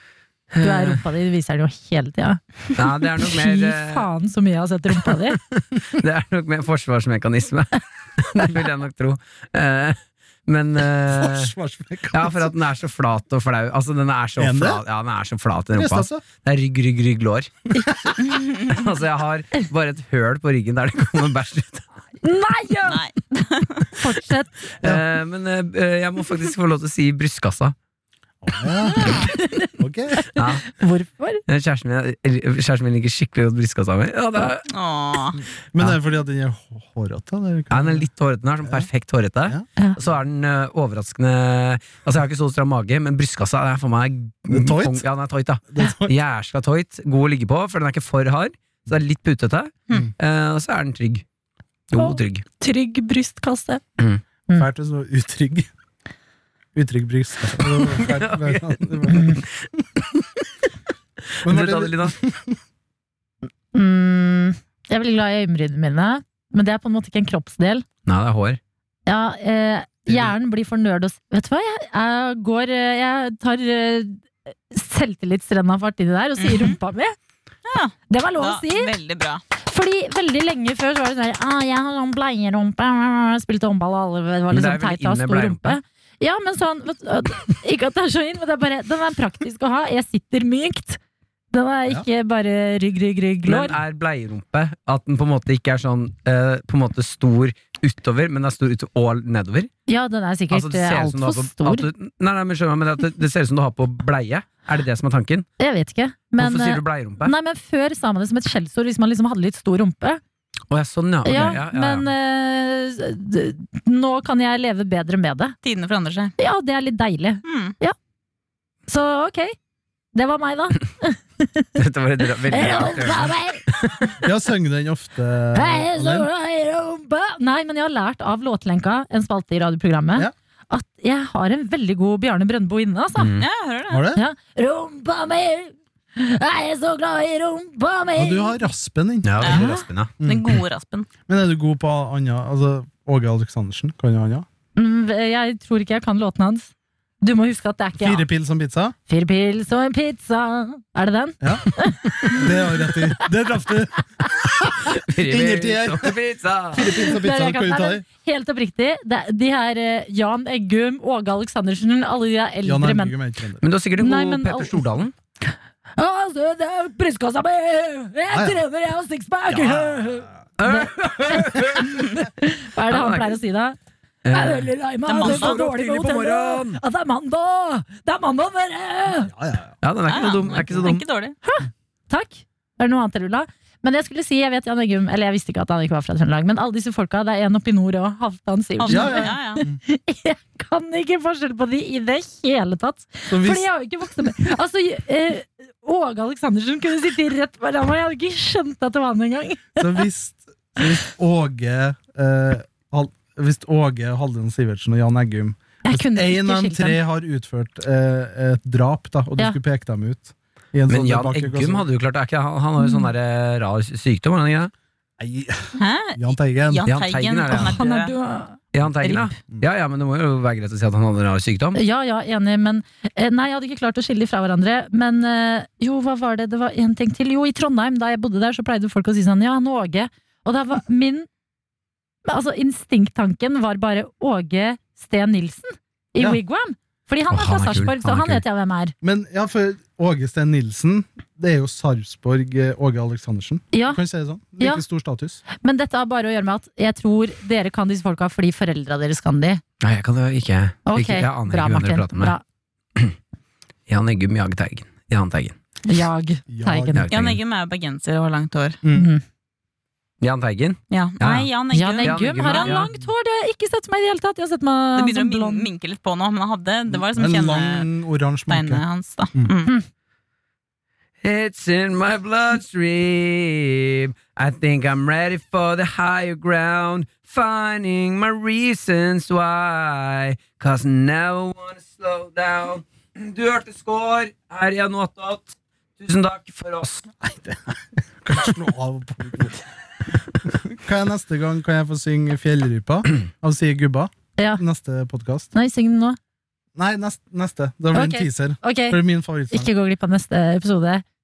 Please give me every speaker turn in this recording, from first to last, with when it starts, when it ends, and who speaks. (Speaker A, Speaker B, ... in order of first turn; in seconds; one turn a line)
Speaker A: 0.5-1.0
Speaker B: 0.6-5.4
Speaker A: 2.8-4.1
Speaker A: 5.2-11.5
Speaker C: 11.1-12.6
Speaker A: 12.1-22.0
Speaker C: 14.4-14.8
Speaker C: 15.7-16.2
Speaker C: 17.8-18.1
Speaker D: 18.2-18.8
Speaker B: 22.2-23.0
Speaker D: 22.9-23.9
Speaker B: 23.9-24.7
Speaker A: 24.8-27.7
Speaker C: 28.4-30.2
Speaker B: 28.8-31.4
Speaker A: 30.3-30.7
Speaker A: 31.5-34.7
Speaker D: 34.7-35.4
Speaker C: 35.7-38.1
Speaker A: 37.7-51.2
Speaker C: 38.6-38.9
Speaker C: 44.5-45.0
Speaker C: 45.7-46.1
Speaker A: 51.9-52.4
Speaker B: 51.9-53.8
Speaker C: 54.5-55.7
Speaker C: 56.7-59.4
Speaker A: 57.6-60.4
Speaker B: 59.1-59.4
Speaker A: 61.4-62.2
Speaker C: 61.4-62.6
Speaker B: 63.7-67.8
Speaker A: 68.0-68.6
Speaker B: 69.0-77.2
Speaker C: 70.0-70.3
Speaker D: 76.4-76.8
Speaker D: 77.7-79.4
Speaker B: 78.1-78.9
Speaker B: 79.6-91.0
Speaker A: 84.5-85.8
Speaker B: 91.5-93.8
Speaker A: 93.4-99.7
Speaker B: 99.9-101.8
Speaker A: 100.5-105.5
Speaker B: 105.6-110.2
Speaker A: 106.4-107.3
Speaker A: 110.7-112.1
Speaker B: 111.2-115.5
Speaker D: 115.6-116.3
Speaker B: 116.4-117.9
Speaker D: 117.4-117.7
Speaker B: 118.9-119.5
Speaker B: 120.1-121.7
Speaker A: 121.8-124.2
Speaker B: 122.4-123.6
Speaker C: 124.2-126.3
Speaker B: 125.5-133.3
Speaker A: 133.2-133.4
Speaker D: 133.4-134.1
Speaker C: 133.9-134.2
Speaker B: 134.1-138.6
Speaker C: 138.2-139.7
Speaker A: 139.2-140.1
Speaker D: 139.4-139.7
Speaker B: 139.5-139.9
Speaker C: 140.2-140.5
Speaker D: 140.2-141.1
Speaker C: 141.3-144.5
Speaker B: 144.7-146.7
Speaker B: 147.2-148.2
Speaker C: 148.0-148.9
Speaker B: 149.1-153.0
Speaker C: 151.4-151.7
Speaker C: 152.2-156.2
Speaker A: 154.6-156.9
Speaker C: 156.7-158.0
Speaker B: 156.8-163.1
Speaker C: 162.6-163.6
Speaker A: 163.6-165.1
Speaker B: 164.0-164.8
Speaker B: 165.5-173.8
Speaker C: 168.3-168.6
Speaker C: 169.5-170.3
Speaker A: 170.6-172.2
Speaker A: 172.9-173.3
Speaker A: 174.2-176.8
Speaker B: 174.3-179.3
Speaker D: 175.1-175.6
Speaker C: 179.2-179.7
Speaker A: 179.8-181.0
Speaker D: 180.1-181.3
Speaker B: 181.4-200.0
Speaker D: 188.8-189.6
Speaker C: 188.9-189.8
Speaker C: 193.3-193.7
Speaker C: 199.8-211.8
Speaker B: 205.8-207.0
Speaker A: 210.9-214.7
Speaker B: 212.8-213.1
Speaker C: 215.2-216.9
Speaker D: 215.7-218.1
Speaker A: 216.8-217.8
Speaker B: 217.5-218.6
Speaker A: 218.7-221.8
Speaker D: 219.0-219.3
Speaker B: 221.7-231.3
Speaker B: 232.2-238.9
Speaker A: 237.3-238.4
Speaker C: 239.0-245.4
Speaker B: 243.7-244.0
Speaker B: 245.5-249.6
Speaker A: 249.8-252.3
Speaker B: 250.9-252.4
Speaker A: 253.9-255.6
Speaker B: 255.8-257.1
Speaker C: 256.5-257.1
Speaker A: 256.9-257.4
Speaker D: 257.1-258.8
Speaker C: 258.8-259.1
Speaker B: 258.9-259.2
Speaker A: 260.2-261.5
Speaker D: 260.9-262.8
Speaker B: 261.7-265.7
Speaker A: 262.0-262.9
Speaker D: 264.9-267.9
Speaker C: 266.9-268.8
Speaker D: 268.5-269.8
Speaker A: 271.2-287.1
Speaker C: 287.2-289.6
Speaker C: 290.4-295.5
Speaker B: 294.4-294.6
Speaker B: 295.5-296.2
Speaker C: 296.8-299.7
Speaker B: 297.9-299.0
Speaker B: 299.5-301.0